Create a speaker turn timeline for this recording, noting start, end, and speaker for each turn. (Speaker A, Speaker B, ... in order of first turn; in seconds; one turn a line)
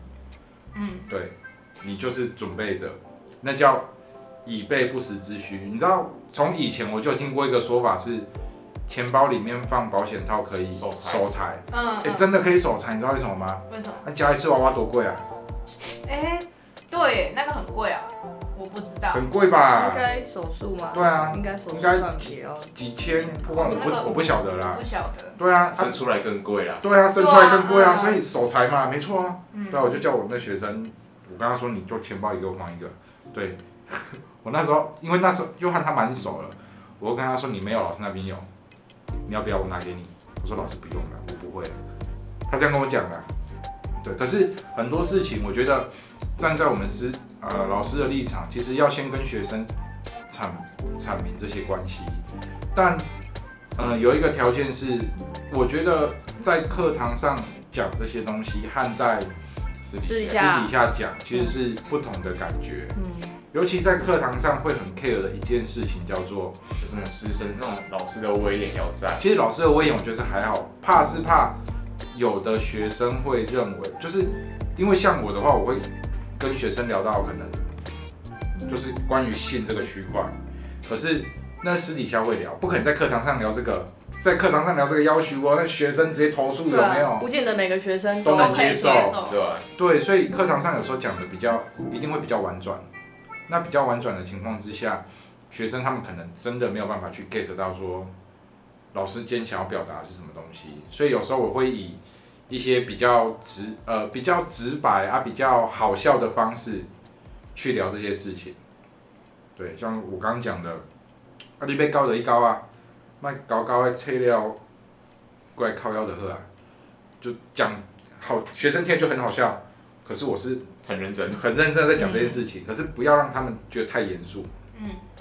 Speaker A: 0.7-1.1
Speaker B: 1.1-3.9
Speaker B: 4.5-8.3
Speaker B: 8.9-15.2
Speaker C: 10.8-11.3
Speaker A: 11.7-12.3
Speaker A: 13.7-14.1
Speaker A: 16.1-19.2
Speaker B: 19.1-20.1
Speaker D: 19.8-23.6
Speaker B: 20.9-24.8
Speaker A: 23.5-25.4
Speaker B: 25.4-26.0
Speaker C: 25.7-26.9
Speaker B: 26.8-38.5
Speaker A: 27.1-28.2
Speaker A: 29.5-30.0
Speaker B: 39.3-41.8
Speaker B: 42.5-43.3
Speaker B: 44.0-49.7
Speaker B: 50.3-53.1
Speaker B: 53.8-59.3
Speaker C: 59.9-60.5
Speaker D: 60.0-60.7
Speaker B: 60.1-63.0
Speaker D: 63.0-63.3
Speaker B: 63.5-66.6
Speaker C: 66.8-69.2
Speaker B: 69.2-71.6
Speaker B: 72.1-77.6
Speaker B: 78.7-80.3
Speaker B: 80.8-87.3
Speaker D: 86.7-88.7
Speaker B: 88.2-89.2
Speaker A: 88.3-89.4
Speaker C: 88.5-89.7
Speaker B: 89.8-92.8
Speaker B: 93.5-98.1
Speaker B: 98.9-106.9
Speaker B: 107.5-108.6
Speaker B: 109.6-110.8
Speaker B: 111.6-112.6
Speaker B: 113.2-114.6
Speaker B: 115.5-116.5
Speaker B: 117.2-120.7
Speaker C: 120.8-121.5
Speaker B: 121.3-124.5
Speaker D: 122.0-122.4
Speaker A: 124.7-125.0